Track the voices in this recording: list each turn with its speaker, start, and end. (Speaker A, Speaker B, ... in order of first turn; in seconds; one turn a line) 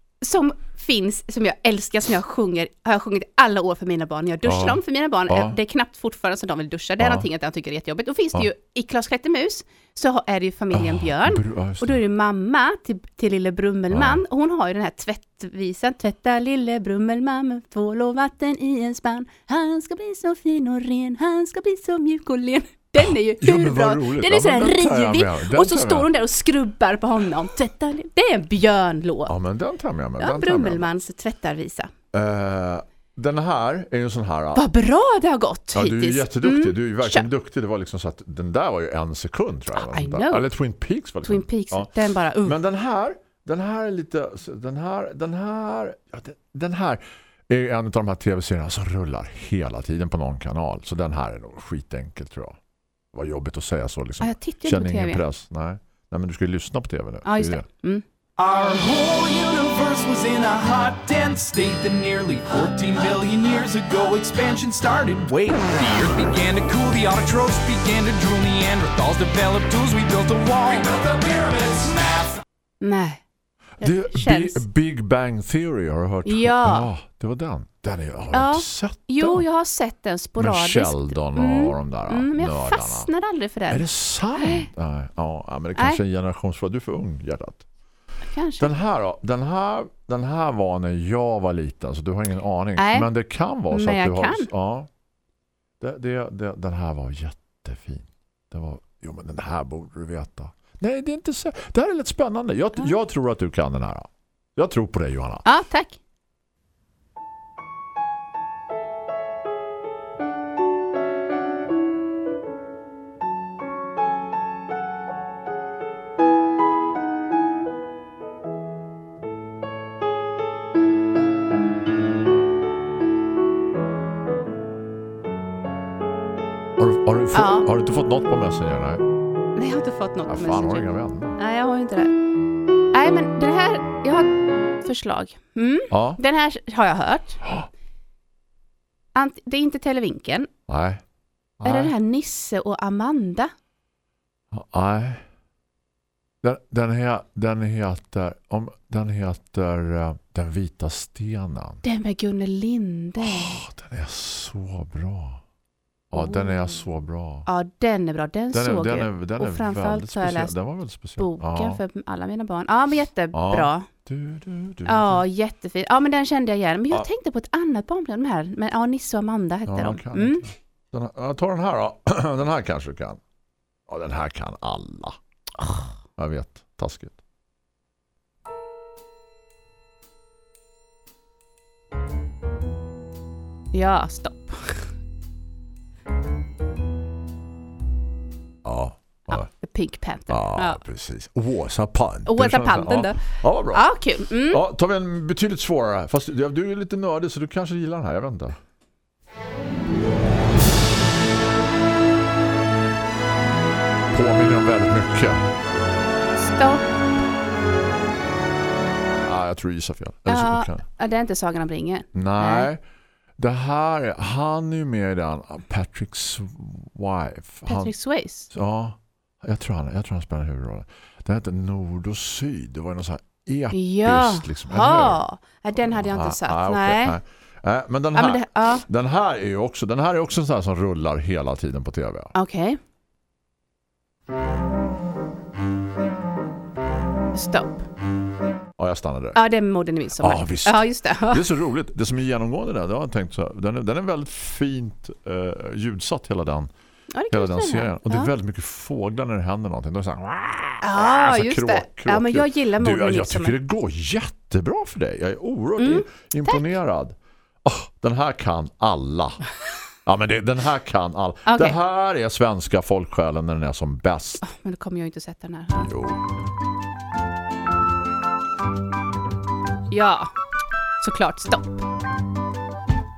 Speaker A: 0.2-29.3
Speaker B: 4.4-5.6
Speaker B: 7.0-7.3
Speaker B: 10.7-12.0
Speaker B: 13.9-14.2
Speaker B: 23.0-26.1
Speaker B: 29.3-30.9
Speaker A: 30.2-31.9
Speaker B: 32.1-34.7
Speaker A: 34.5-37.3
Speaker B: 35.7-41.9
Speaker A: 39.7-40.5
Speaker A: 41.2-42.6
Speaker B: 42.4-52.6
Speaker B: 53.1-57.7
Speaker A: 54.2-55.2
Speaker A: 57.2-58.0
Speaker C: 58.4-72.4
Speaker A: 72.8-73.2
Speaker B: 73.8-79.5
Speaker A: 73.8-74.6
Speaker A: 76.2-76.9
Speaker A: 78.3-84.7
Speaker B: 80.4-83.1
Speaker B: 83.7-87.7
Speaker A: 85.8-86.0
Speaker A: 88.3-88.7
Speaker B: 88.6-94.9
Speaker A: 92.8-93.1
Speaker A: 93.7-94.5
Speaker B: 95.8-105.4
Speaker A: 105.5-106.0
Speaker B: 126.8-129.0
Speaker A: 127.3-127.7
Speaker A: 129.6-132.1
Speaker B: 130.3-131.4
Speaker A: 132.9-137.4
Speaker B: 135.9-136.2
Speaker A: 139.2-140.5
Speaker B: 140.7-141.0
Speaker B: 141.6-141.9
Speaker A: 141.6-143.5
Speaker B: 144.5-145.2
Speaker B: 146.4-151.8
Speaker A: 151.8-153.6
Speaker B: 153.2-155.4
Speaker B: 156.1-157.5
Speaker A: 156.1-156.8
Speaker A: 157.5-160.6
Speaker B: 158.5-161.8
Speaker A: 161.2-163.9
Speaker B: 163.3-165.2
Speaker A: 164.9-170.4
Speaker B: 169.7-173.2
Speaker B: 173.9-177.2
Speaker A: 183.7-184.9
Speaker B: 188.6-189.5
Speaker A: 189.3-190.8
Speaker B: 190.3-193.9
Speaker A: 192.3-194.6
Speaker B: 194.5-198.6
Speaker B: 204.1-205.5
Speaker A: 206.4-206.8
Speaker B: 209.2-210.8
Speaker A: 210.3-212.7
Speaker B: 212.1-212.8
Speaker B: 213.4-217.9
Speaker A: 217.7-218.5
Speaker B: 218.5-225.2
Speaker A: 223.7-227.2
Speaker B: 225.8-232.3
Speaker A: 228.2-228.8
Speaker A: 232.3-232.8
Speaker A: 237.3-237.8
Speaker B: 238.8-239.4
Speaker A: 239.3-241.4
Speaker B: 240.2-246.7
Speaker A: 247.1-248.3
Speaker B: 247.3-259.4
Speaker A: 250.8-253.6
Speaker A: 255.8-256.6
Speaker B: 260.1-264.4
Speaker A: 261.5-261.8
Speaker A: 264.4-265.9
Speaker B: 265.8-266.2
Speaker A: 269.9-270.3
Speaker A: 271.0-271.8